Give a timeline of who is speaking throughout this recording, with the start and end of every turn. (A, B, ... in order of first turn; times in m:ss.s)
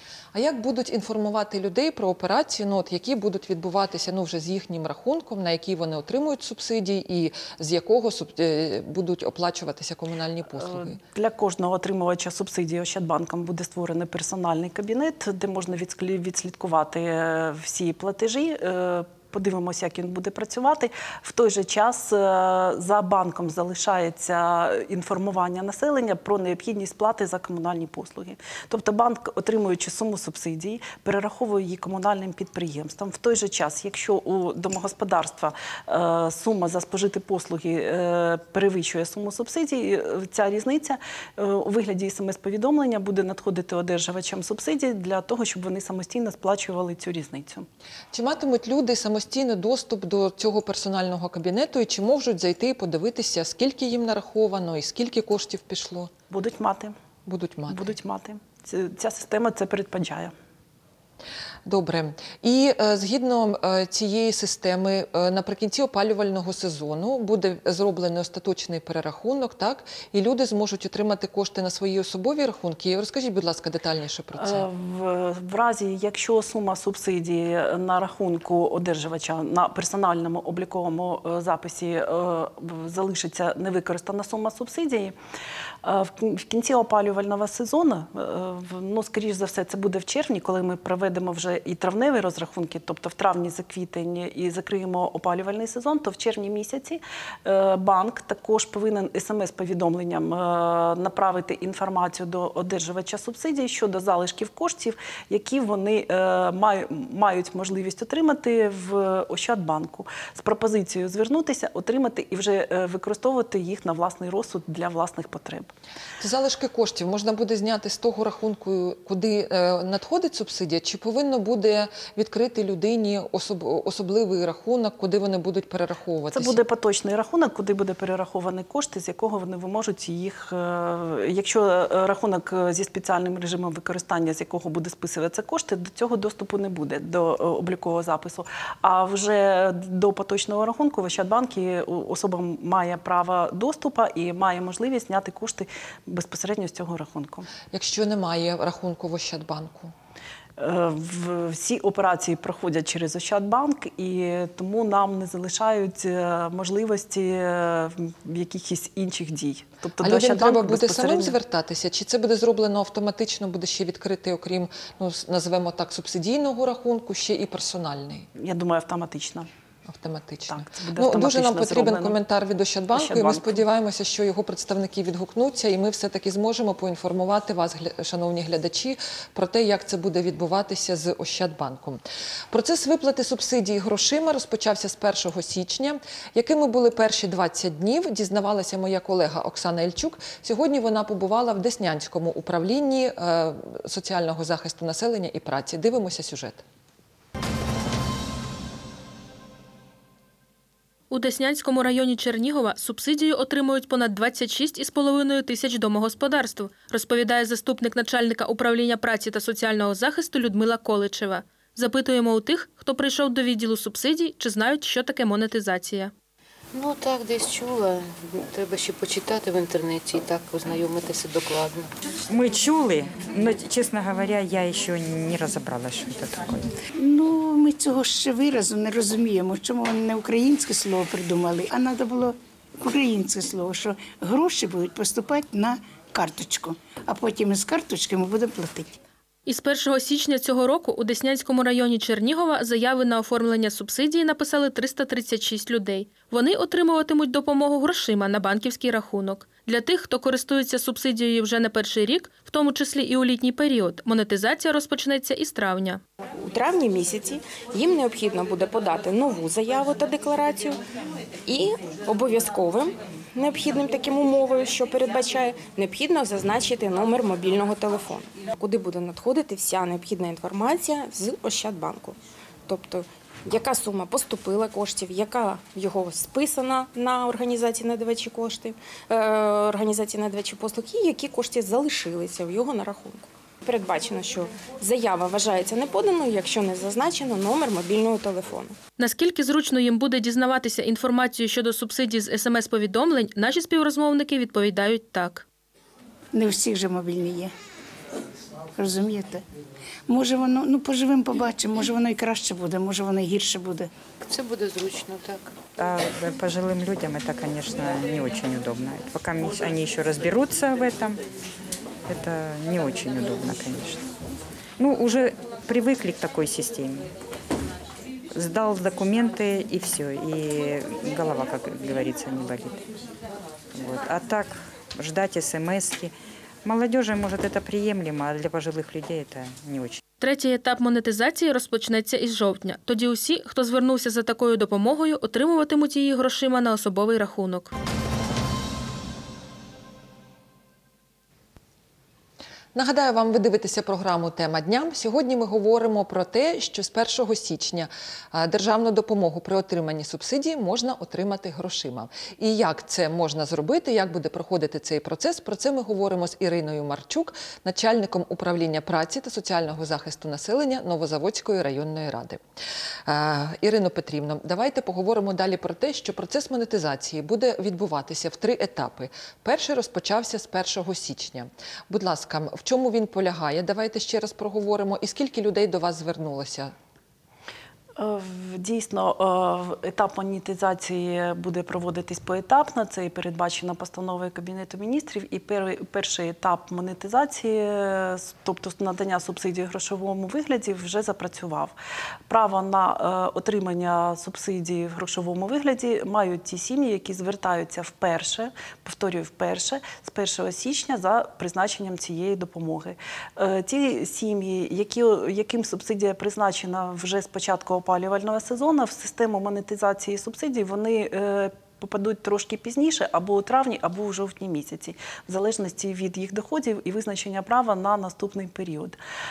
0:00.3-0:11.0 A
0:10.6-0:47.7 B
0:48.1-0:56.1 A
0:56.3-0:56.9 B
0:57.3-0:57.9 A
0:57.7-1:00.3 B
1:01.6-1:14.7 A
1:14.4-1:25.2 B
1:25.8-1:55.7 B
1:56.2-2:06.6 A
2:06.3-2:27.5 B
2:27.7-2:29.9 A
2:30.6-2:41.4 B
2:40.0-2:48.3 A
2:48.4-2:49.5 B
2:49.9-3:02.0 A
2:50.5-2:52.2 B
2:53.0-2:53.6 B
3:02.5-3:16.6 A
3:21.1-3:36.1 C
3:36.7-3:41.9 D
3:42.3-3:46.7 E
3:47.0-3:59.0 F
3:59.5-4:16.0 C
4:16.4-4:20.8 G
4:21.5-4:48.8 G
4:49.0-4:55.5 C
4:56.3-4:57.5 F
4:58.8-4:59.4 F
5:00.1-5:03.9 F
5:04.2-5:05.5 D
5:05.8-5:11.2 E
5:12.1-5:14.0 E
5:14.8-5:17.1 E
5:18.3-5:22.8 E
5:23.7-5:26.1 E
5:26.6-5:30.0 E
5:30.2-5:37.7 C
5:42.7-6:02.4 A
6:03.1-6:16.7 A
6:18.0-6:31.7 B
6:32.3-6:59.0 B